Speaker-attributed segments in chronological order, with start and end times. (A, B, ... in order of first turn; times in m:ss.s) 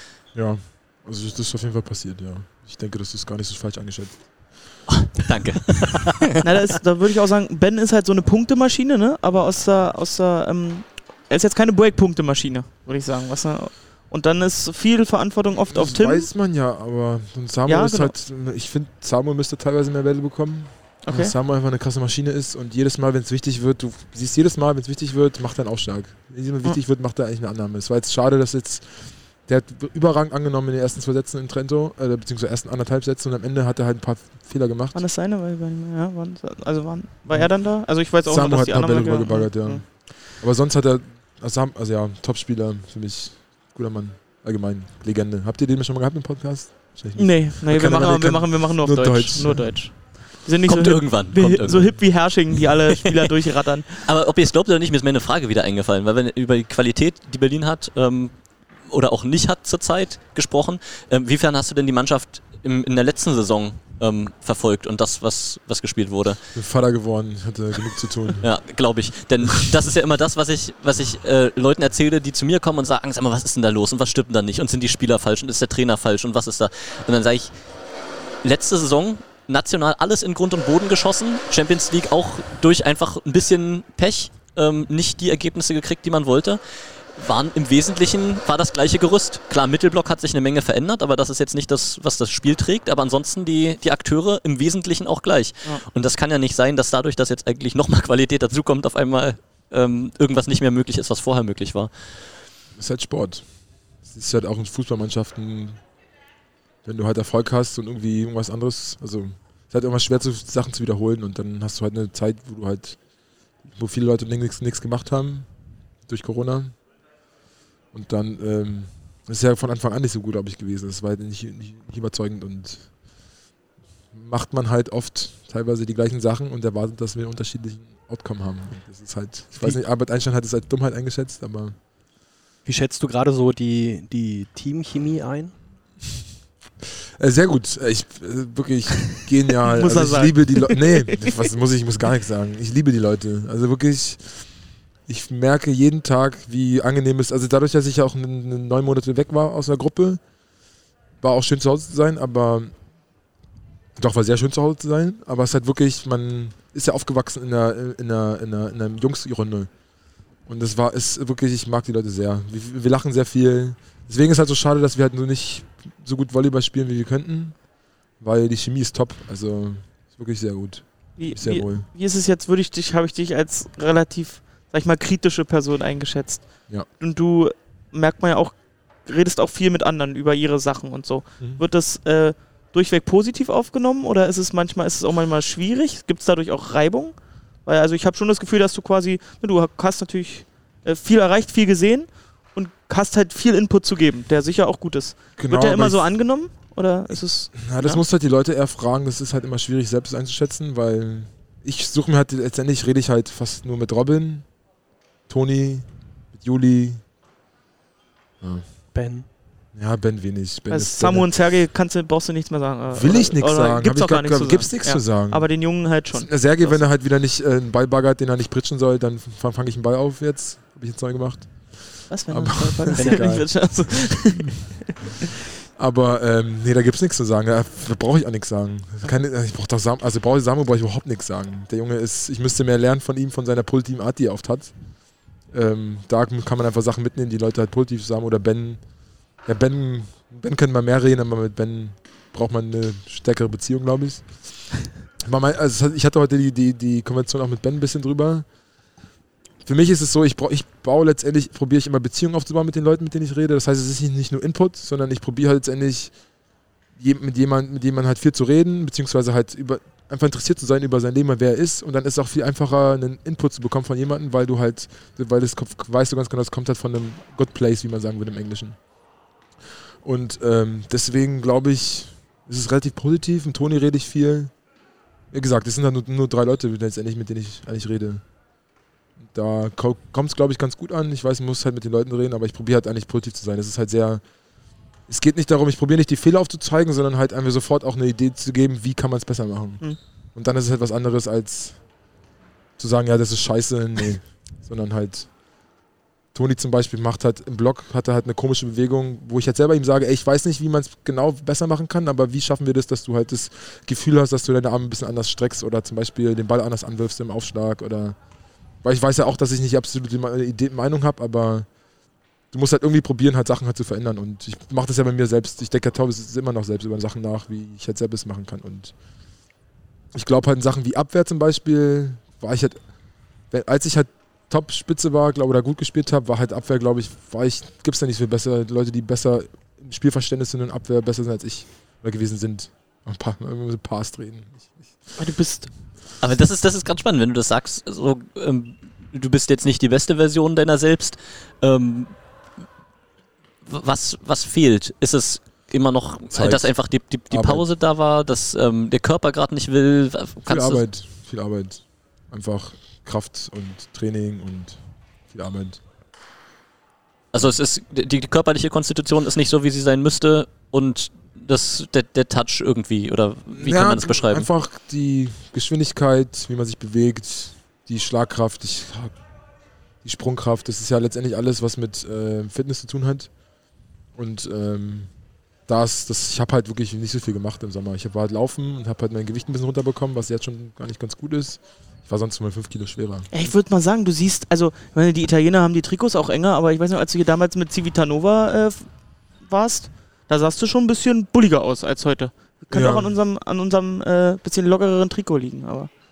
0:00.3-0:04.8 A
0:05.0-0:06.1 B
0:06.4-0:16.3 C
0:15.7-0:35.0 A
0:17.7-0:18.1 C
0:21.0-0:21.4 C
0:34.9-0:40.1 C
0:37.3-0:50.2 A
0:47.2-0:53.9 C
0:50.7-0:52.1 B
0:53.9-1:06.4 B
1:06.5-1:08.5 A
1:08.4-1:17.5 B
1:18.4-1:42.2 B
1:42.8-1:45.8 A
1:46.8-1:53.0 A
1:53.6-1:56.8 A
1:57.9-2:03.3 A
2:04.1-2:11.8 A
2:12.6-2:15.6 D
2:17.2-2:30.2 A
2:19.7-2:21.3 C
2:31.2-2:32.8 A
2:34.0-2:39.7 A
2:40.4-2:51.9 A
2:51.2-3:18.0 C
3:15.4-3:16.2 A
3:17.5-3:24.6 A
3:25.3-3:27.0 A
3:28.4-3:28.8 A
3:28.9-3:29.3 D
3:29.7-3:31.3 A
3:30.7-3:36.8 C
3:32.9-3:44.2 A
3:42.1-3:44.8 C
3:43.0-3:43.5 D
3:45.8-4:08.5 A
4:09.6-4:16.2 A
4:17.0-4:28.8 A
4:30.0-4:34.6 A
4:35.3-4:38.2 A
4:39.2-4:44.2 A
4:45.1-4:51.8 A
4:52.8-4:55.4 A
4:56.3-5:08.2 A
5:08.8-5:11.7 A
5:12.5-5:19.0 A
5:20.1-5:22.9 A
5:23.5-5:35.1 A
5:35.2-5:35.7 C
5:36.2-5:42.2 B
5:43.7-5:50.8 B
5:46.3-5:47.7 A
5:50.5-5:55.8 A
5:57.3-6:04.5 B
6:03.5-6:09.2 A
6:10.0-6:13.4 A
6:14.1-6:23.3 A
6:23.3-6:35.9 C
6:32.7-6:33.1 A